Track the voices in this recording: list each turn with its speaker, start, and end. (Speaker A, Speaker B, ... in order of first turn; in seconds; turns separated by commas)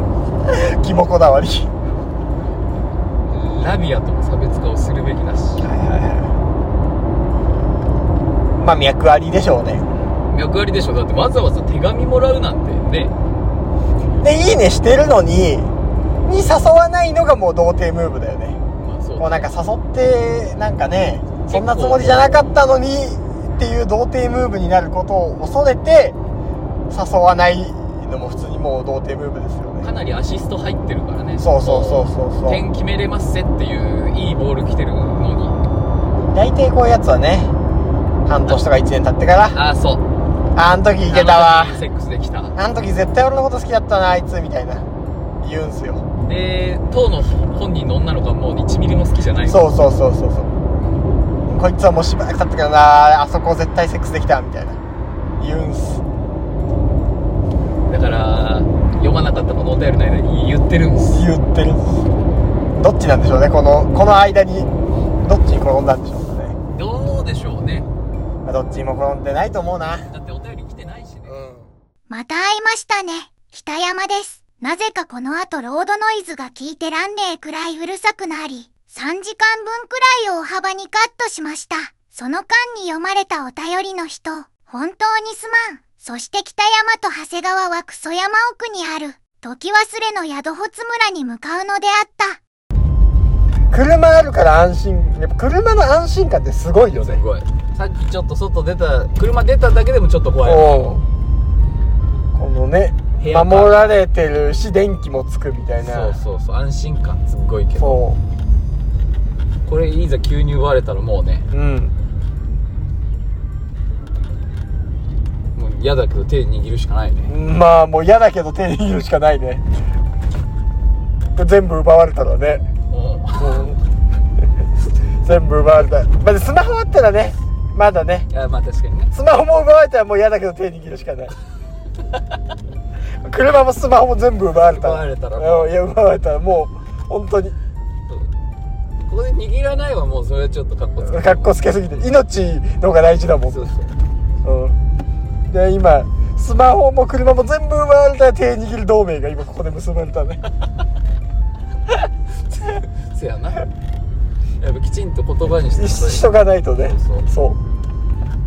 Speaker A: 0.5-1.7, Speaker B: 3.3-5.7, Speaker A: 5.6-6.3, Speaker A: 8.6-9.9, Speaker B: 10.3-13.2, Speaker A: 14.2-15.7, Speaker A: 16.2-18.6, Speaker B: 18.8-19.5, Speaker A: 19.2-26.2, Speaker B: 21.5-22.5, Speaker A: 26.9-29.9, Speaker B: 29.8-35.6, Speaker A: 31.4-32.6, Speaker A: 36.3-37.5, Speaker A: 38.3-39.6, Speaker B: 39.5-40.0, Speaker A: 40.5-41.8, Speaker B: 41.1-42.5, Speaker A: 42.6-44.9, Speaker A: 45.4-46.0, Speaker B: 46.2-49.7, Speaker A: 49.5-50.5, Speaker A: 51.5-54.8, Speaker A: 55.4-56.0, Speaker B: 57.9-61.3, Speaker A: 61.1-62.0, Speaker A: 62.8-64.7, Speaker A: 65.2-66.6, Speaker B: 66.7-67.9, Speaker A: 68.4-70.1, Speaker B: 70.1-71.4, Speaker A: 71.3-71.7, Speaker C: 72.1-92.4, Speaker A: 93.7-97.2, Speaker B: 96.9-101.0, Speaker A: 100.4-101.0, Speaker A: 102.3-106.2, Speaker B: 103.2-103.9, Speaker B: 105.8-108.0, Speaker A: 107.8-108.2, Speaker B: 109.7-111.5, Speaker A: 111.5-111.9, Speaker B: 115.5-117.3, Speaker A: 117.3-119.7, Speaker A: 121.4-122.7, Speaker B: 122.9-123.8, Speaker A: 123.3-123.8, Speaker A: 125.2-128.3, Speaker B: 128.3-129.1, Speaker A: 129.1-131.3, Speaker A: 133.2-137.6, Speaker B: 134.6-135.7, Speaker B: 139.1-141.6, Speaker A: 141.0-143.7, Speaker B: 143.5-143.9, Speaker A: 144.4-144.8, Speaker A: 145.5-150.5, Speaker B: 152.6-153.7, Speaker B: 154.6-157.3, Speaker A: 155.7-157.6